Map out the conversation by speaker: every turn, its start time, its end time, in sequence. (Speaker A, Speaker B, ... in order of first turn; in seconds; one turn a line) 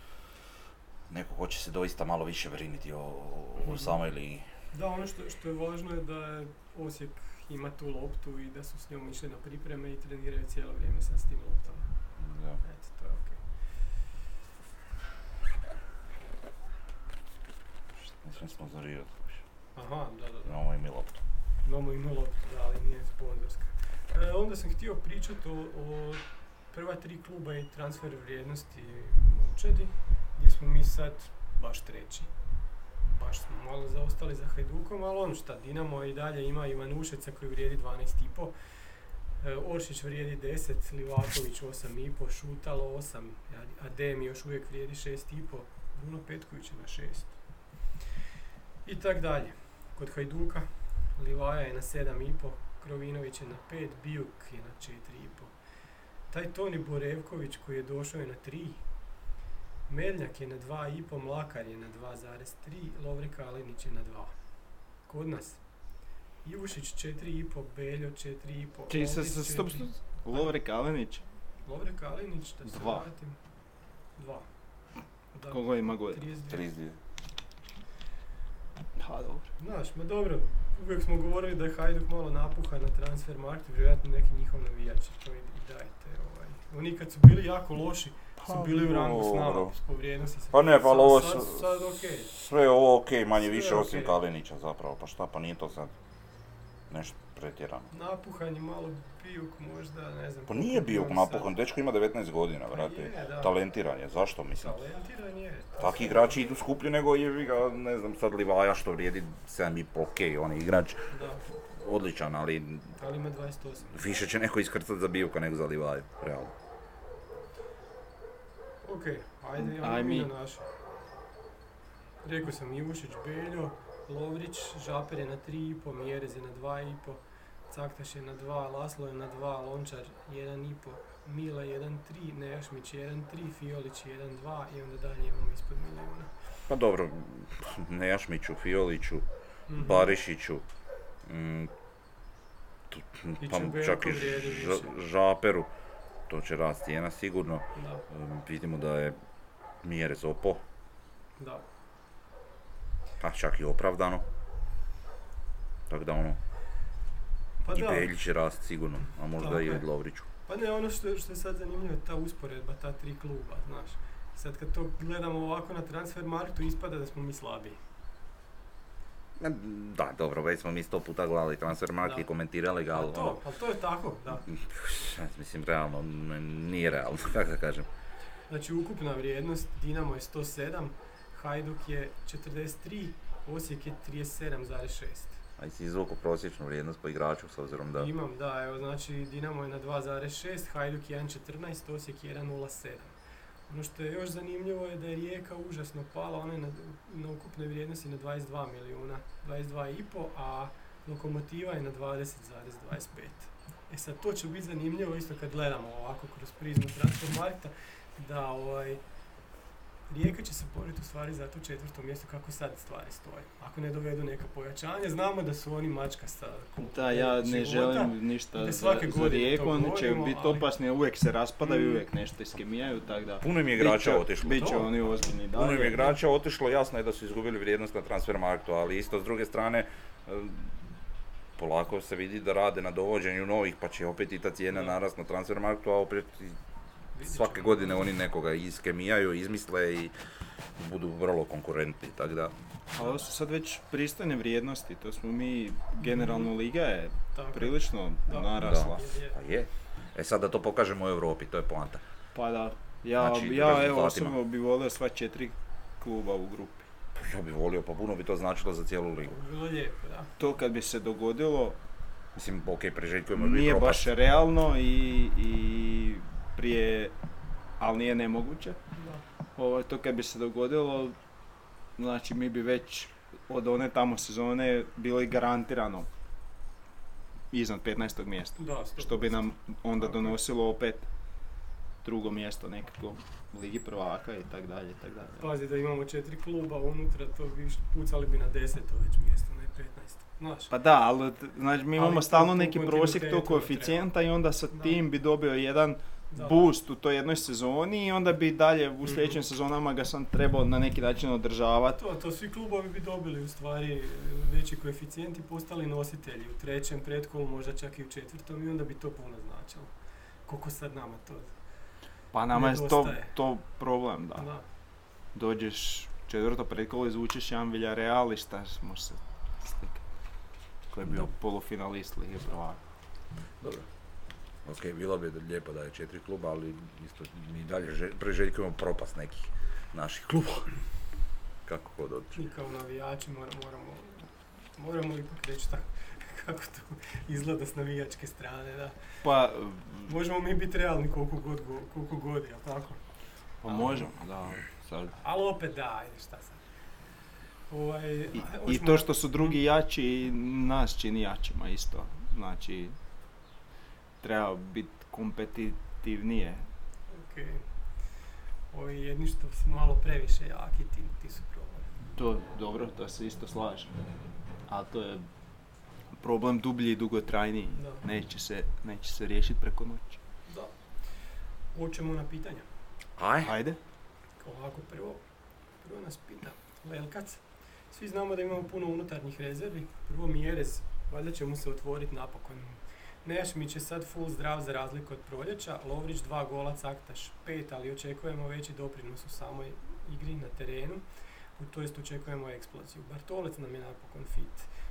Speaker A: 1.1-4.5
Speaker B: 3.6-4.0
Speaker B: 4.7-11.9
Speaker A: 12.2-12.6
Speaker B: 12.6-13.4
Speaker A: 18.0-19.4
Speaker B: 19.8-20.6
Speaker A: 20.4-21.2
Speaker B: 21.6-32.3
Speaker B: 33.1-38.5
Speaker B: 39.4-47.4
Speaker B: 48.9-55.5
Speaker B: 56.3-58.8
Speaker B: 59.9-64.4
Speaker B: 65.0-65.6
Speaker B: 66.4-70.5
Speaker C: 68.9-71.2
Speaker B: 71.6-73.4
Speaker C: 72.6-73.0
Speaker B: 74.2-74.5
Speaker B: 75.3-76.6
Speaker C: 75.5-76.2
Speaker A: 76.5-77.0
Speaker C: 79.0-79.5
Speaker B: 79.6-92.3
Speaker A: 88.4-89.7
Speaker A: 90.5-95.9
Speaker B: 93.4-94.2
Speaker A: 96.9-97.9
Speaker B: 97.9-101.5
Speaker A: 100.5-104.8
Speaker B: 102.7-103.5
Speaker B: 104.6-106.4
Speaker A: 105.8-113.0
Speaker B: 111.1-111.5
Speaker B: 113.0-113.9
Speaker A: 113.9-116.5
Speaker B: 118.8-120.6
Speaker C: 119.5-120.3
Speaker B: 122.2-136.3
Speaker A: 136.7-140.6
Speaker B: 139.7-140.1
Speaker A: 141.2-141.7
Speaker A: 142.9-145.7
Speaker B: 143.4-144.9
Speaker A: 146.3-149.2
Speaker B: 147.7-148.0
Speaker A: 149.8-150.6
Speaker B: 151.4-151.6
Speaker A: 153.2-154.2
Speaker A: 155.9-156.4
Speaker B: 157.6-158.1
Speaker A: 157.7-160.3
Speaker B: 159.4-159.8
Speaker B: 160.4-167.8
Speaker A: 169.4-173.4
Speaker B: 172.9-174.4
Speaker A: 174.5-177.9
Speaker B: 178.5-185.4
Speaker A: 185.6-188.1
Speaker B: 187.9-193.2
Speaker B: 193.7-209.0
Speaker B: 210.1-220.7
Speaker C: 216.8-226.1
Speaker B: 221.6-222.0
Speaker A: 223.4-224.9
Speaker B: 224.5-224.9
Speaker A: 225.5-230.8
Speaker A: 231.6-236.6
Speaker B: 237.1-238.1
Speaker A: 237.2-240.1
Speaker A: 240.8-242.5
Speaker C: 242.9-249.0
Speaker B: 246.0-246.5
Speaker B: 247.3-249.4
Speaker A: 248.5-252.0
Speaker C: 252.3-256.9
Speaker A: 253.2-254.4
Speaker A: 257.1-259.4
Speaker B: 259.2-260.3
Speaker C: 260.4-261.8
Speaker A: 262.4-264.1
Speaker C: 263.3-267.1
Speaker C: 267.8-268.8
Speaker B: 268.9-269.2
Speaker C: 269.6-271.2
Speaker C: 272.0-276.1
Speaker C: 277.5-281.1
Speaker B: 278.6-279.5
Speaker B: 280.0-280.3
Speaker C: 282.0-285.4
Speaker B: 285.4-290.7
Speaker C: 290.7-302.0
Speaker B: 291.9-294.1
Speaker B: 294.7-295.0
Speaker B: 296.3-296.6
Speaker B: 299.0-299.4
Speaker B: 301.9-309.9
Speaker B: 310.4-311.5
Speaker C: 312.3-314.5
Speaker B: 312.5-313.3
Speaker B: 314.4-314.6
Speaker C: 315.3-320.0
Speaker C: 320.9-322.8
Speaker A: 321.0-321.3
Speaker A: 323.6-323.9
Speaker A: 324.6-330.9
Speaker A: 331.6-332.4
Speaker B: 332.4-339.2
Speaker C: 339.2-340.2
Speaker B: 340.1-343.0
Speaker C: 343.6-345.1
Speaker A: 343.7-344.7
Speaker B: 345.2-346.6
Speaker B: 347.7-349.6
Speaker C: 348.3-353.0
Speaker C: 354.2-356.6
Speaker B: 357.1-357.6
Speaker B: 358.7-361.9
Speaker C: 362.1-363.9
Speaker C: 364.7-365.3
Speaker C: 366.1-370.2
Speaker B: 367.8-368.0
Speaker B: 370.4-372.7
Speaker A: 373.2-373.5
Speaker C: 373.4-373.8
Speaker B: 374.4-375.2
Speaker B: 375.8-391.0
Speaker B: 391.6-394.7